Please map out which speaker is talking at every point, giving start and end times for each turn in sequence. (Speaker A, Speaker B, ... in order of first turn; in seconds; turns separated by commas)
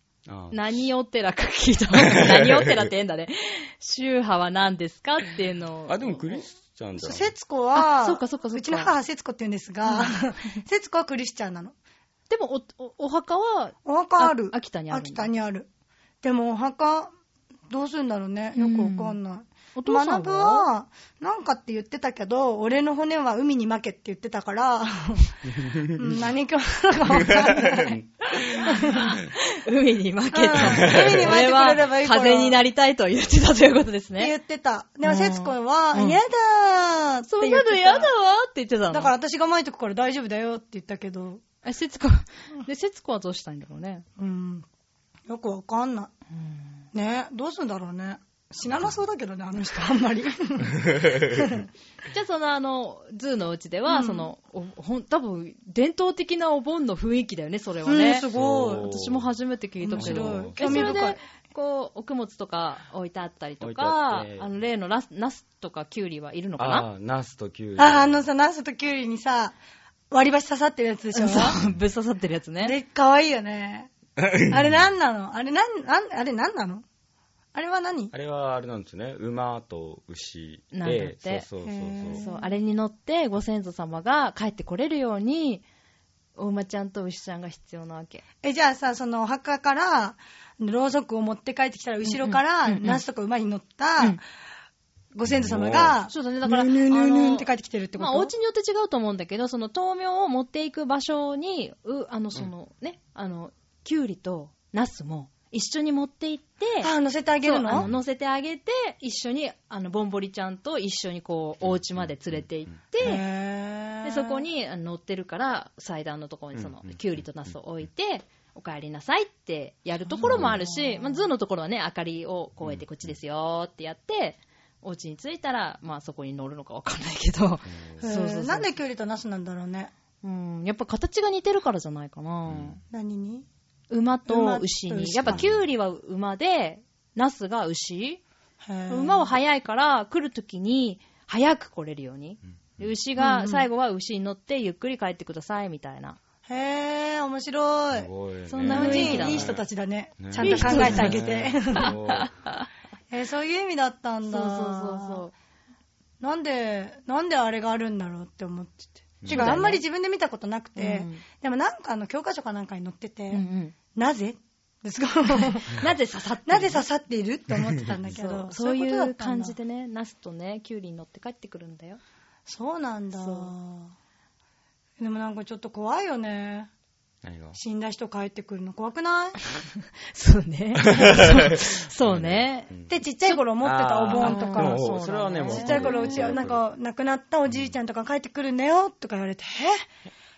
Speaker A: 0.2-0.8, Speaker B: 0.5-6.4, Speaker A: 2.1-2.6, Speaker A: 5.9-7.3, Speaker C: 7.0-11.7, Speaker B: 7.7-8.9, Speaker B: 9.8-10.1, Speaker B: 12.3-15.3, Speaker C: 13.8-15.7, Speaker C: 16.2-17.1, Speaker C: 17.7-25.4, Speaker B: 18.6-19.2, Speaker B: 19.7-20.7, Speaker A: 25.6-26.0, Speaker C: 25.9-28.0, Speaker A: 27.1-28.7, Speaker B: 28.6-34.3, Speaker C: 28.6-29.1, Speaker C: 30.3-32.6, Speaker A: 30.6-31.3, Speaker C: 34.2-38.1, Speaker B: 35.0-36.2, Speaker B: 37.2-39.1, Speaker C: 38.9-41.4, Speaker B: 41.6-44.0, Speaker C: 44.2-44.6, Speaker C: 45.3-46.1, Speaker B: 46.3-46.8, Speaker C: 46.9-51.6, Speaker B: 52.1-66.9, Speaker C: 53.9-54.3, Speaker C: 57.8-58.9, Speaker A: 58.3-59.3, Speaker C: 59.8-61.2, Speaker A: 60.0-60.6, Speaker A: 63.6-64.5, Speaker A: 66.6-68.2, Speaker C: 67.8-69.5, Speaker C: 70.1-71.6, Speaker B: 71.1-72.8, Speaker C: 72.6-73.9, Speaker A: 74.2-74.6, Speaker C: 74.5-76.8, Speaker C: 77.5-78.1, Speaker A: 78.1-82.2, Speaker B: 80.7-81.4, Speaker C: 81.6-82.5, Speaker B: 82.2-85.6, Speaker B: 86.3-88.2, Speaker C: 88.4-94.2, Speaker B: 92.0-93.0, Speaker C: 95.1-98.3, Speaker A: 95.2-95.9, Speaker B: 96.0-106.9, Speaker C: 106.8-107.8, Speaker B: 107.4-113.2, Speaker A: 107.7-108.0, Speaker A: 111.6-112.4, Speaker C: 113.0-114.4, Speaker B: 114.0-128.7, Speaker A: 116.5-117.5, Speaker A: 120.2-120.6, Speaker C: 120.2-121.3, Speaker A: 122.6-123.2, Speaker A: 127.6-128.1, Speaker C: 128.0-129.9, Speaker B: 130.2-132.8, Speaker A: 132.5-132.8, Speaker C: 132.9-133.4, Speaker B: 133.9-138.2, Speaker C: 134.3-135.5, Speaker A: 135.2-135.7, Speaker C: 138.6-139.3, Speaker B: 138.9-146.2, Speaker C: 143.2-143.7, Speaker C: 146.5-148.1, Speaker A: 147.9-149.6, Speaker B: 148.5-149.5, Speaker C: 148.6-151.9, Speaker A: 150.2-152.3, Speaker B: 150.4-151.2, Speaker B: 151.8-152.3, Speaker C: 153.1-155.2, Speaker B: 154.2-155.3, Speaker C: 156.2-163.4, Speaker A: 159.2-159.6, Speaker B: 159.3-159.8, Speaker B: 160.8-161.2, Speaker B: 163.3-163.7, Speaker C: 163.9-165.8, Speaker B: 165.7-166.8, Speaker C: 166.4-169.6, Speaker B: 168.1-172.0, Speaker C: 172.5-173.9, Speaker B: 173.2-173.5, Speaker C: 175.0-176.7, Speaker A: 177.2-177.6, Speaker C: 177.5-179.4, Speaker B: 180.1-182.7, Speaker A: 180.9-182.9, Speaker C: 182.9-184.9, Speaker A: 183.6-186.6, Speaker B: 184.2-186.5, Speaker C: 185.4-189.8